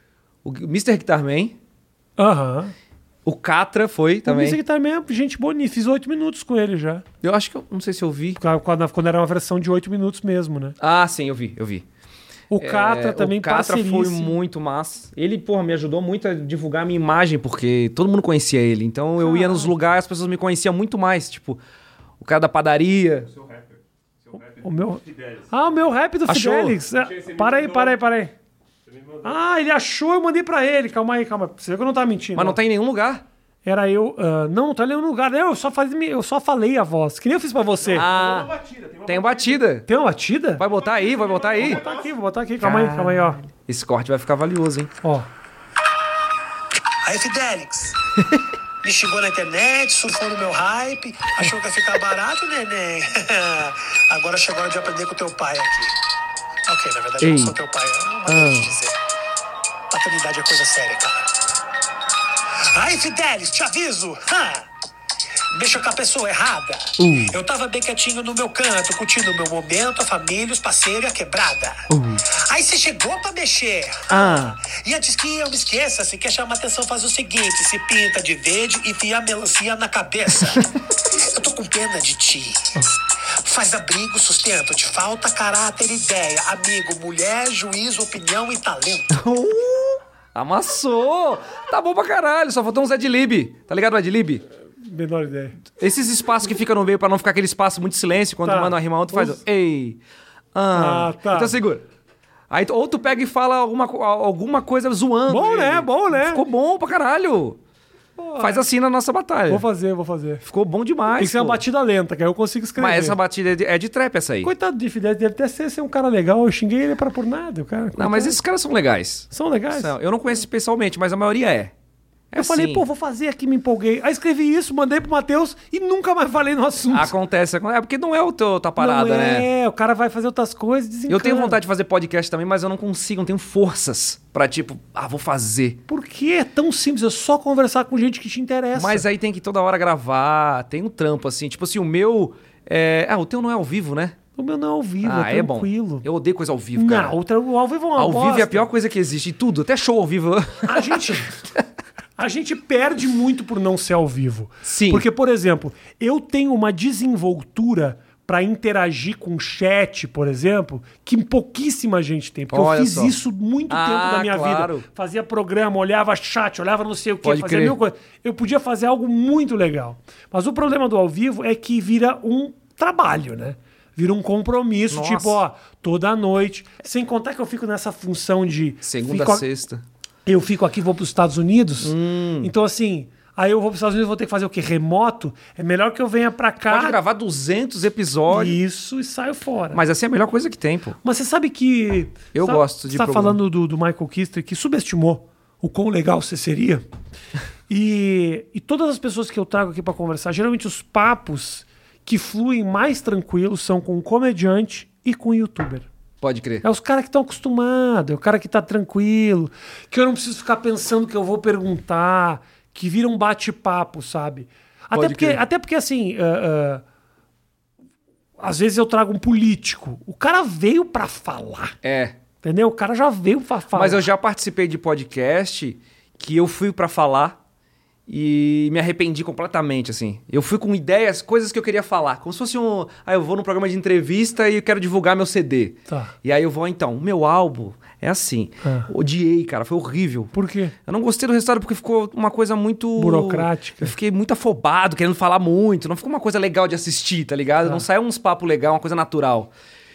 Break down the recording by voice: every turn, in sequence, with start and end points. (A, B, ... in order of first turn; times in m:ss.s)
0:00.4-0:01.6 A
0:02.2-0:02.7 B
0:03.2-0:04.6 A
0:04.2-0:07.0 B
0:07.2-0:08.4 A
0:08.4-0:10.8 B
0:10.8-0:11.8 A
0:12.5-0:14.4 B
0:12.6-0:21.6 A
0:19.2-0:19.7 B
0:22.2-0:23.3 A
0:23.3-0:25.6 C
0:24.6-0:28.3 B
0:26.3-0:26.8 A
0:27.0-0:28.0 C
0:28.9-0:29.3 C
0:29.2-0:32.6 B
0:32.3-0:33.2 A
0:33.6-0:38.1 B
0:37.8-0:39.6 C
0:37.9-0:38.5 A
0:39.0-0:39.9 A
0:39.9-0:40.6 B
0:40.6-0:41.8 A
0:40.7-0:42.1 C
0:41.6-0:43.4 B
0:42.6-0:44.9 A
0:45.0-0:45.3 B
0:47.0-0:47.9 D
0:48.2-0:48.4 A
0:48.8-0:55.9 D
0:56.7-0:58.9 D
0:57.2-0:57.6 A
0:58.3-0:58.8 A
0:58.3-0:58.6 B
0:59.9-1:01.2 D
1:02.6-1:04.6 D
1:05.5-1:20.6 D
1:07.0-1:07.4 A
1:11.9-1:12.2 A
1:14.1-1:14.6 A
1:21.1-1:29.1 D
1:29.1-1:34.4 A
1:34.8-1:35.6 B
1:35.8-1:40.0 A
1:38.4-1:39.4 B
1:40.5-1:41.8 A
1:40.7-1:41.6 B
1:42.5-1:47.6 A
1:45.3-1:46.4 B
1:48.2-1:48.6 B
1:48.4-1:49.6 A
1:49.5-1:50.4 B
1:50.4-1:51.6 A
1:51.1-1:53.2 B
1:52.8-1:54.5 A
1:54.4-1:58.4 B
1:58.0-2:01.7 A
1:59.3-1:59.9 B
2:02.3-2:02.8 A
2:02.3-2:07.1 B
2:06.9-2:09.5 A
2:08.8-2:11.6 B
2:11.1-2:15.8 A
2:15.9-2:19.0 B
2:18.7-2:24.2 A
2:24.4-2:26.0 B
2:25.0-2:27.2 A
2:26.8-2:28.7 B
2:28.0-2:31.6 A
2:30.6-2:31.3 B
2:32.2-2:59.4 B
2:34.6-2:35.0 A
2:42.5-2:43.2 A
2:43.7-2:44.8 A
2:47.2-2:47.8 A
2:54.9-2:55.4 A
2:58.8-2:59.8 A
3:00.2-3:07.0 B
3:01.8-3:02.5 A
3:06.7-3:08.6 A
3:08.3-3:09.8 B
3:09.7-3:11.0 A
3:11.0-3:16.8 B
3:12.3-3:13.4 A
3:17.7-3:25.9 B
3:26.2-3:26.6 A
3:26.6-3:36.8 B
3:34.9-3:35.4 A
3:38.4-3:41.8 B
3:41.8-3:42.2 A
3:42.4-3:44.1 B
3:43.7-3:47.4 A
3:48.1-4:00.3 A
3:55.9-3:56.1 B
3:58.6-3:58.9 B
4:00.3-4:00.7 B
4:00.8-4:09.5 A
4:03.0-4:03.9 B